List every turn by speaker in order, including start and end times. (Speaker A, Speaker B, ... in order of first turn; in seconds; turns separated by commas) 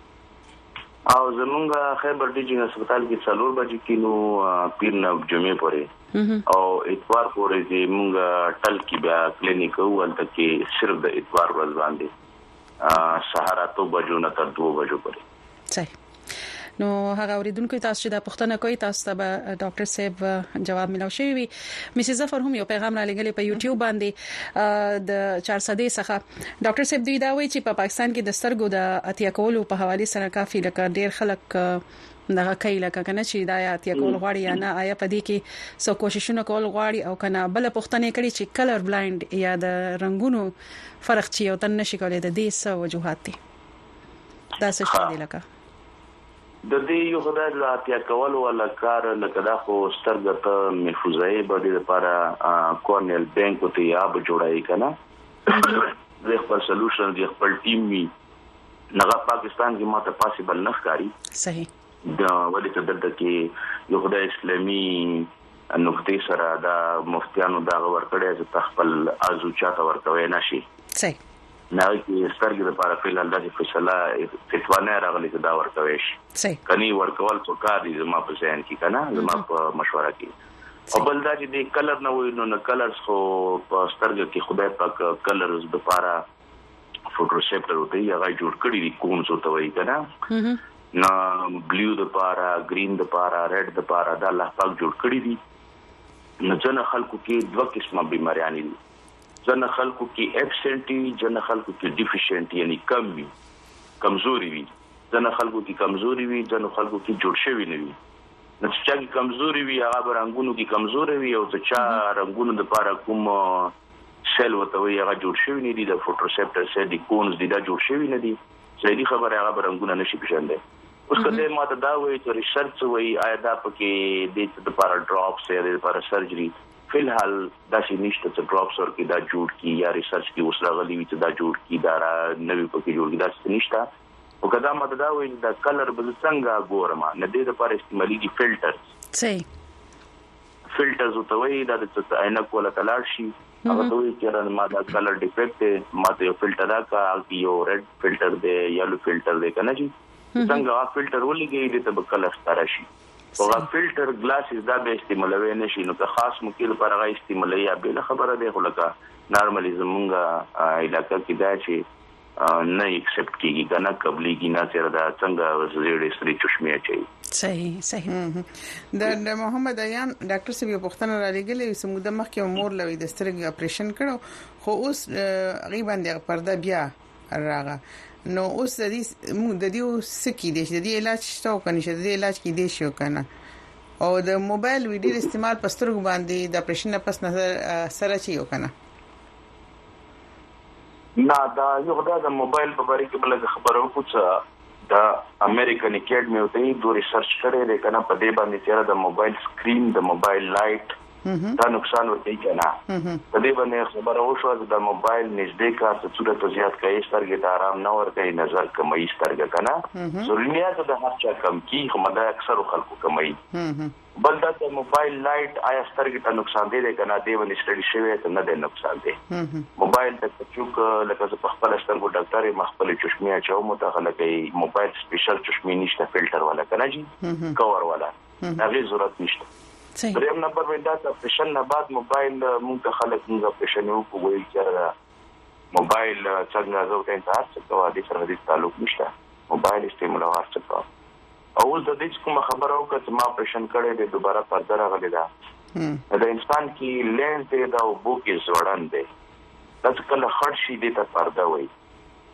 Speaker A: 1.1-5.9, Speaker B: 6.1-6.4, Speaker A: 6.5-12.1, Speaker A: 12.8-15.2, Speaker B: 16.8-43.4, Speaker B: 44.6-45.4, Speaker A: 44.8-45.1, Speaker A: 46.6-54.9, Speaker A: 55.5-58.1, Speaker A: 58.9-61.1, Speaker B: 61.3-61.7, Speaker A: 62.0-70.6, Speaker A: 71.7-80.3, Speaker B: 79.2-79.4, Speaker A: 80.9-86.2, Speaker A: 87.1-90.0, Speaker B: 90.3-90.6, Speaker A: 90.9-95.4, Speaker A: 96.4-98.8, Speaker A: 99.4-103.3, Speaker A: 104.0-107.9, Speaker A: 108.6-113.7, Speaker A: 114.3-120.6, Speaker A: 121.1-133.9, Speaker A: 134.4-138.8, Speaker B: 139.1-139.4, Speaker A: 140.7-161.8, Speaker B: 150.3-150.6, Speaker B: 153.4-153.6, Speaker A: 162.4-167.0, Speaker B: 167.3-168.1, Speaker C: 168.1-183.2, Speaker C: 184.0-188.7, Speaker A: 191.2-200.9, Speaker C: 201.2-201.6, Speaker A: 201.6-202.8, Speaker C: 202.9-203.2, Speaker A: 203.3-213.4, Speaker C: 209.9-210.3, Speaker C: 213.5-213.9, Speaker A: 214.2-219.2, Speaker C: 219.3-219.7, Speaker A: 219.8-229.5, Speaker C: 227.2-227.6, Speaker B: 230.0-230.2, Speaker A: 230.1-234.9, Speaker A: 235.7-240.8, Speaker A: 241.6-245.3, Speaker C: 245.8-246.0, Speaker A: 246.1-249.1, Speaker A: 249.8-251.7